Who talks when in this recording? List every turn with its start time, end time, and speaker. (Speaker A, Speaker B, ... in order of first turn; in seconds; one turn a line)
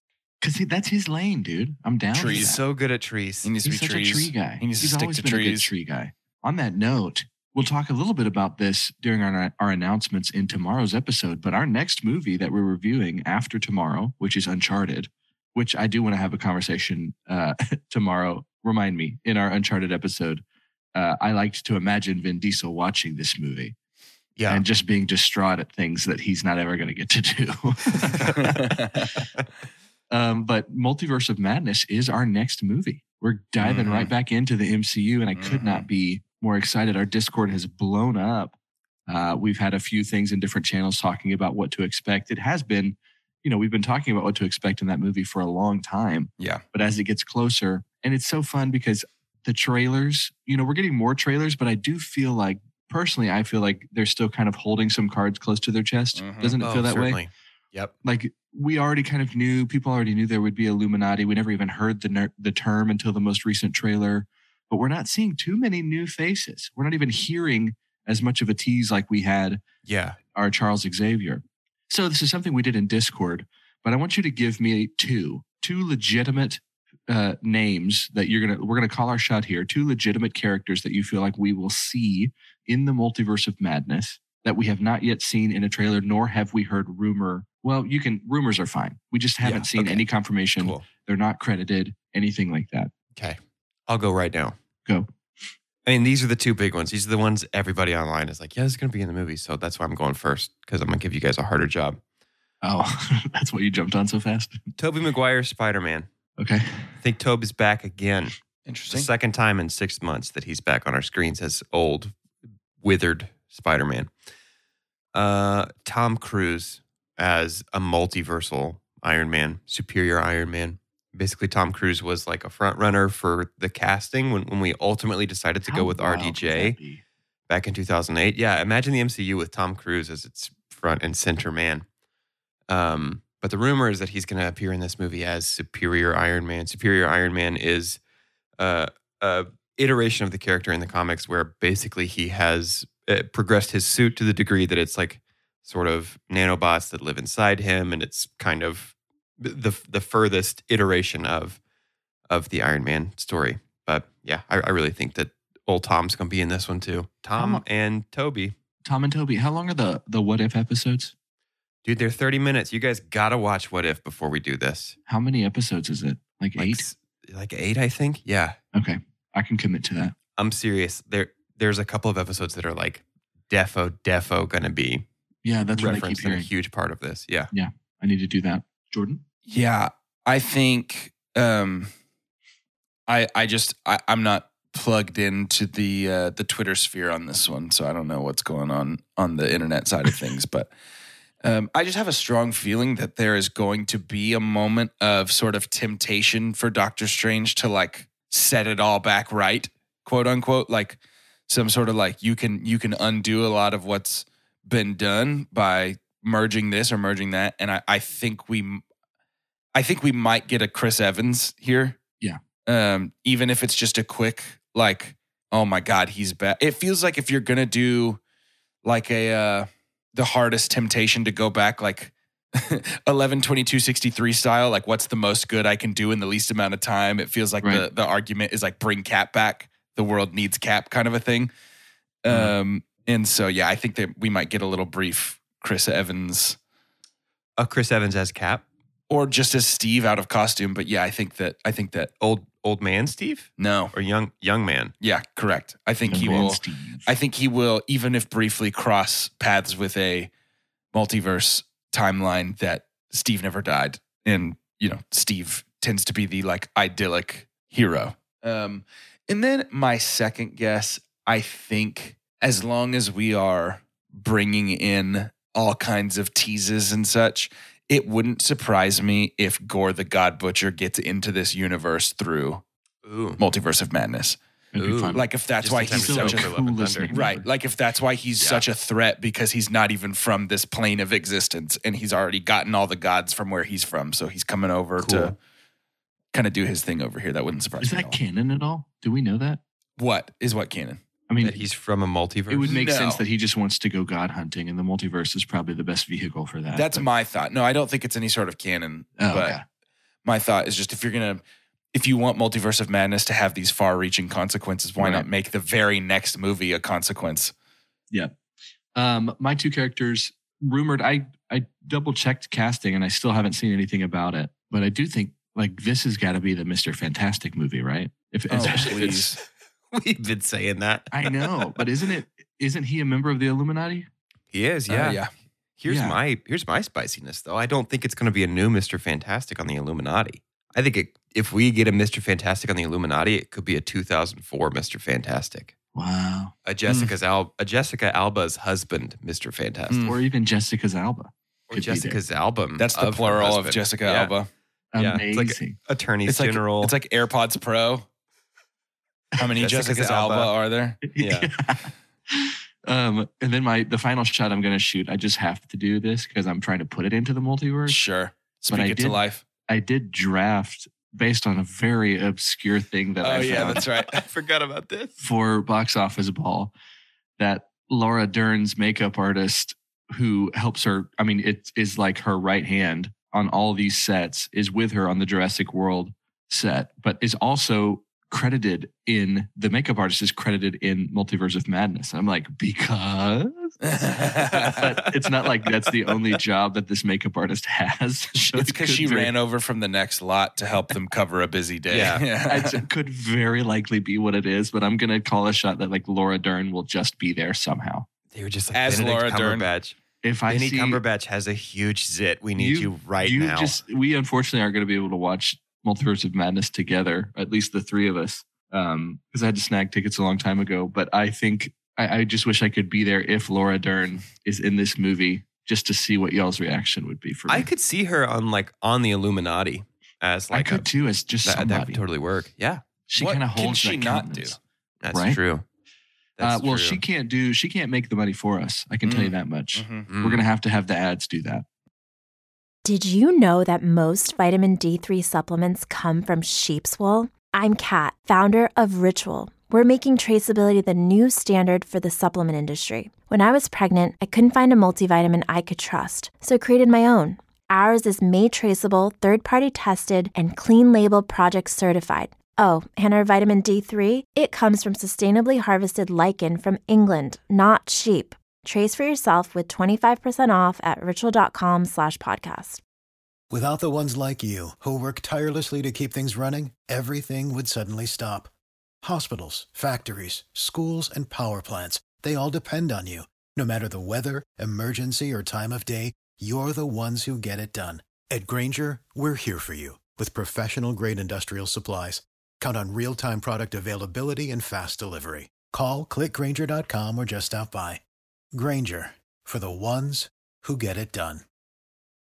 Speaker A: 0.4-2.6
Speaker B: 2.1-2.6
Speaker C: 2.3-3.5
Speaker B: 3.4-5.7
Speaker A: 3.6-20.4
Speaker A: 20.9-23.7
Speaker C: 24.4-24.6
Speaker A: 24.5-28.8
Speaker B: 28.3-29.1
Speaker A: 30.1-38.5
Speaker C: 33.6-34.1
Speaker B: 35.3-35.9
Speaker A: 39.1-57.2
Speaker B: 46.4-46.6
Speaker B: 56.1-56.5
Speaker C: 56.6-57.9
Speaker A: 58.0-69.6
Speaker C: 69.8-70.2
Speaker A: 70.3-92.9
Speaker C: 89.4-90.0
Speaker C: 90.6-90.8
Speaker C: 93.2-94.5
Speaker C: 95.8-102.0
Speaker A: 102.6-104.6
Speaker C: 104.8-106.1
Speaker A: 106.4-106.9
Speaker C: 107.0-108.3
Speaker B: 108.7-109.1
Speaker C: 108.9-112.1
Speaker C: 112.8-114.1
Speaker C: 115.1-126.8
Speaker A: 125.7-127.0
Speaker C: 127.5-131.8
Speaker C: 132.7-138.0
Speaker C: 138.6-151.6
Speaker C: 152.3-158.5
Speaker A: 157.3-157.6
Speaker A: 158.8-161.1
Speaker C: 161.8-164.9
Speaker A: 165.1-166.8
Speaker C: 166.6-168.6
Speaker A: 168.7-170.1
Speaker C: 170.4-175.0
Speaker A: 175.4-176.5
Speaker C: 175.7-177.5
Speaker A: 177.5-179.2
Speaker B: 179.5-181.9
Speaker B: 183.1-190.7
Speaker B: 191.4-208.8
Speaker B: 209.7-212.0
Speaker B: 212.7-218.2
Speaker B: 218.8-231.5
Speaker B: 232.2-236.6
Speaker C: 237.6-238.6
Speaker B: 239.1-242.1
Speaker C: 242.2-244.9
Speaker B: 243.6-243.9
Speaker B: 245.0-250.3
Speaker A: 246.0-247.1
Speaker C: 246.2-246.5
Speaker B: 250.9-272.6
Speaker C: 273.0-273.4
Speaker B: 273.4-274.4
Speaker A: 274.7-275.2
Speaker C: 274.8-277.1
Speaker B: 275.1-276.6
Speaker A: 275.9-277.4
Speaker B: 277.1-285.4
Speaker C: 285.0-285.4
Speaker B: 286.3-288.2
Speaker A: 287.8-289.6
Speaker B: 290.0-291.0
Speaker A: 291.3-291.6
Speaker C: 291.4-292.7
Speaker A: 292.5-297.1
Speaker B: 292.6-293.2
Speaker B: 296.7-299.6
Speaker A: 299.2-299.6
Speaker B: 300.2-301.4
Speaker B: 301.9-307.5
Speaker A: 305.0-305.2
Speaker A: 308.9-319.3
Speaker B: 318.5-319.4
Speaker C: 318.6-319.0
Speaker C: 319.9-321.8
Speaker A: 321.1-324.1
Speaker C: 324.5-325.2
Speaker B: 324.9-325.3
Speaker C: 325.8-335.7
Speaker A: 325.9-326.2
Speaker A: 335.9-336.5
Speaker C: 336.6-340.1
Speaker B: 336.9-337.1
Speaker B: 339.9-340.1
Speaker A: 340.0-342.2
Speaker C: 341.7-344.3
Speaker B: 342.8-344.5
Speaker A: 344.9-345.8
Speaker C: 345.0-346.9
Speaker B: 346.2-348.1
Speaker B: 349.3-351.0
Speaker C: 349.6-350.5
Speaker A: 351.1-358.0
Speaker C: 351.1-351.5
Speaker B: 357.9-359.4
Speaker A: 358.7-363.8
Speaker B: 363.2-364.2
Speaker C: 363.6-365.2
Speaker A: 365.2-366.7
Speaker A: 367.4-383.8
Speaker B: 383.8-384.8
Speaker A: 384.6-389.3
Speaker B: 388.3-392.8
Speaker C: 391.9-392.2
Speaker A: 392.5-398.1
Speaker C: 398.3-399.9
Speaker B: 398.7-399.6
Speaker A: 400.2-401.0
Speaker C: 400.5-403.8
Speaker A: 402.6-417.7
Speaker C: 417.5-420.9
Speaker A: 420.5-422.0
Speaker C: 421.4-422.8
Speaker A: 423.1-424.6
Speaker B: 423.2-424.6
Speaker C: 425.0-425.6
Speaker A: 425.1-425.4
Speaker C: 426.4-427.0
Speaker A: 426.4-431.6
Speaker B: 429.0-430.1
Speaker C: 430.1-430.4
Speaker D: 432.8-462.8
Speaker E: 463.5-468.5
Speaker E: 469.0-488.0
Speaker E: 488.5-491.4